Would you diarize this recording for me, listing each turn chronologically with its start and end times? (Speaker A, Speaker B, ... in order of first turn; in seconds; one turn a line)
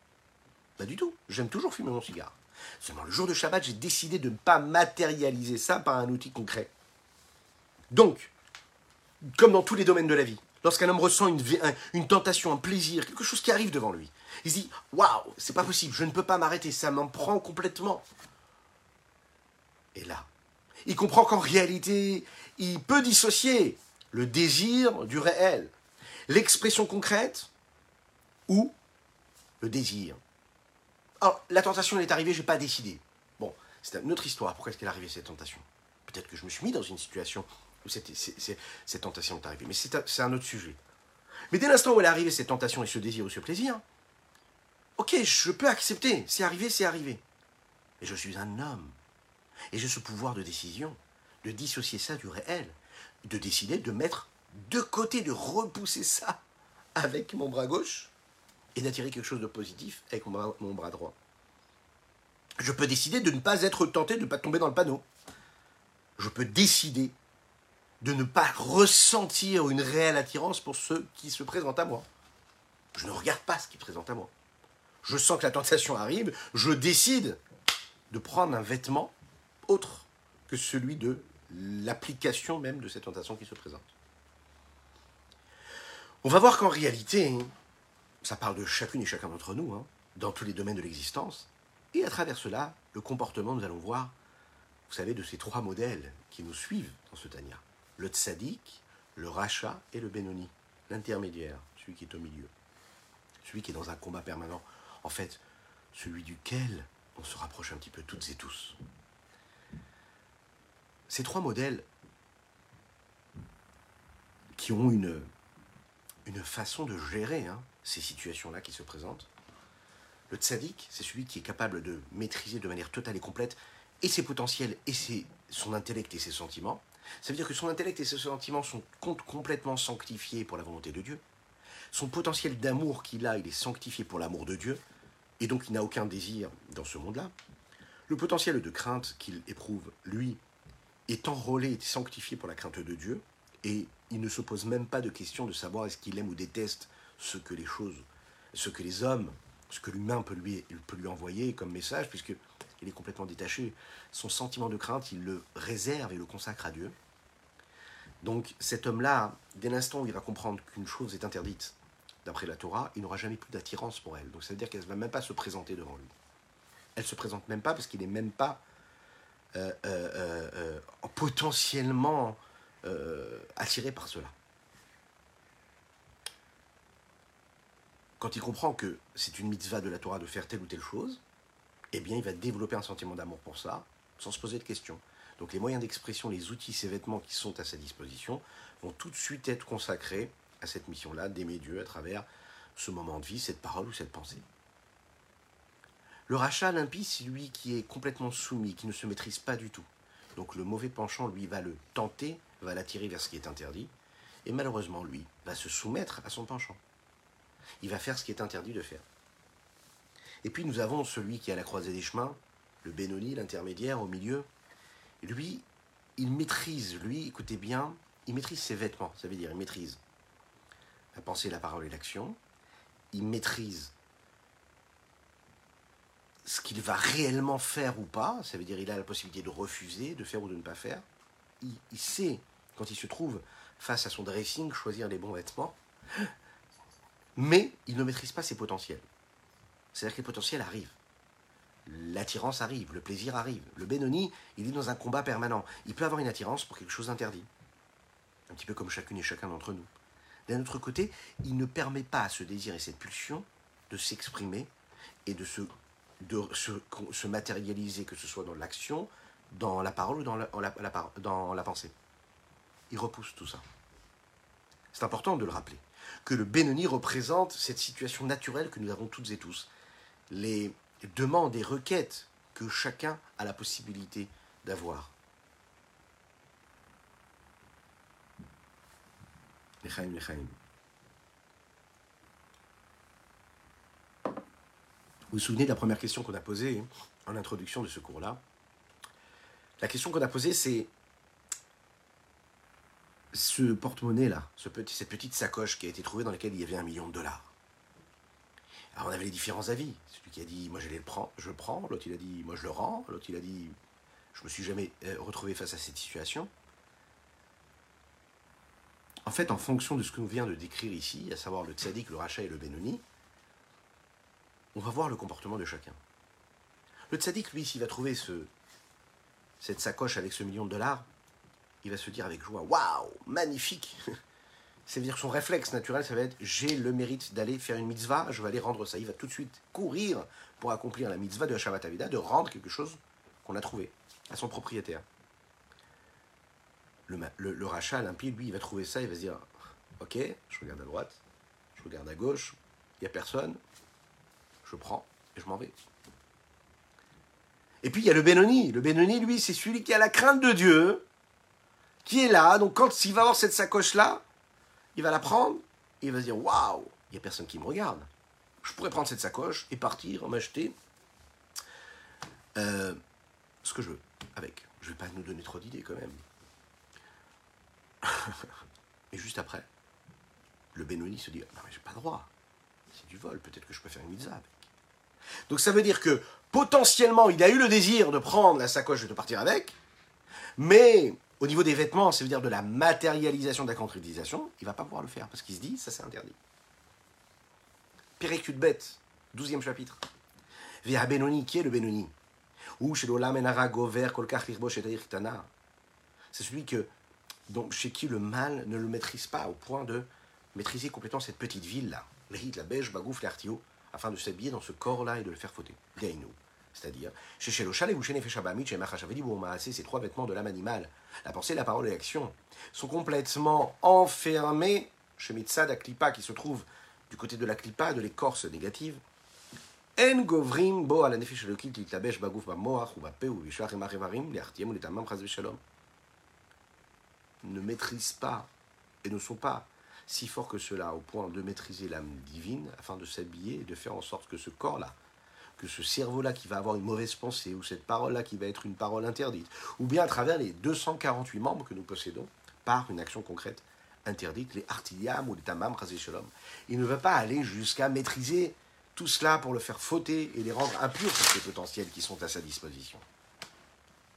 Speaker A: 0.8-6.7
Speaker A: 7.9-8.3
Speaker A: 9.2-18.0
Speaker A: 19.9-20.3
Speaker A: 20.8-25.7
Speaker A: 26.3-27.5
Speaker A: 28.5-28.7
Speaker A: 29.6-30.2
Speaker A: 31.2-40.8
Speaker A: 41.5-43.8
Speaker A: 45.0-47.2
Speaker A: 48.0-48.9
Speaker A: 49.7-56.4
Speaker A: 57.0-58.1
Speaker A: 58.7-61.1
Speaker A: 62.6-65.0
Speaker A: 66.2-67.1
Speaker A: 68.0-72.0
Speaker A: 72.9-74.3
Speaker A: 75.0-77.4
Speaker A: 78.1-79.1
Speaker A: 79.7-83.9
Speaker A: 86.2-87.5
Speaker A: 88.2-94.1
Speaker A: 94.9-102.5
Speaker A: 103.4-105.4
Speaker A: 105.9-108.8
Speaker A: 111.1-111.9
Speaker A: 114.5-115.3
Speaker A: 116.2-119.3
Speaker A: 120.3-131.2
Speaker A: 131.9-134.8
Speaker A: 135.4-137.3
Speaker A: 138.1-140.4
Speaker A: 141.1-156.9
Speaker A: 158.2-166.1
Speaker A: 166.9-168.6
Speaker A: 169.5-174.3
Speaker A: 178.2-181.2
Speaker A: 181.9-194.4
Speaker A: 196.3-203.9
Speaker A: 204.4-206.8
Speaker A: 207.8-209.0
Speaker A: 210.4-214.4
Speaker A: 215.2-215.6
Speaker A: 216.2-220.0
Speaker A: 221.1-222.4
Speaker A: 223.1-223.9
Speaker A: 226.4-231.0
Speaker A: 231.6-235.8
Speaker A: 237.3-239.1
Speaker A: 239.9-241.0
Speaker A: 241.8-247.5
Speaker A: 248.5-249.9
Speaker A: 250.5-254.7
Speaker A: 255.2-261.9
Speaker A: 262.9-263.6
Speaker A: 264.9-269.7
Speaker A: 270.3-275.1
Speaker A: 279.8-280.6
Speaker A: 285.3-288.4
Speaker A: 289.8-290.9
Speaker A: 293.3-297.5
Speaker A: 298.9-303.7
Speaker A: 304.3-306.5
Speaker A: 309.2-313.0
Speaker A: 314.7-316.0
Speaker A: 317.1-318.5
Speaker A: 319.6-321.1
Speaker A: 321.8-324.0
Speaker A: 324.9-335.0
Speaker A: 337.1-341.2
Speaker A: 341.8-343.6
Speaker A: 344.6-345.7
Speaker A: 347.8-351.1
Speaker A: 352.0-354.2
Speaker A: 354.9-358.1
Speaker A: 358.6-360.7
Speaker A: 362.5-363.0
Speaker A: 363.6-366.2
Speaker A: 368.0-368.5
Speaker A: 369.1-369.7
Speaker A: 370.7-372.3
Speaker A: 372.9-374.7
Speaker A: 375.5-379.7
Speaker A: 380.6-386.4
Speaker A: 388.2-390.0
Speaker A: 390.8-392.1
Speaker A: 392.8-395.5
Speaker A: 396.3-396.9
Speaker A: 397.5-419.0
Speaker A: 419.9-425.6
Speaker A: 427.4-428.5
Speaker A: 429.0-434.9
Speaker A: 435.6-453.0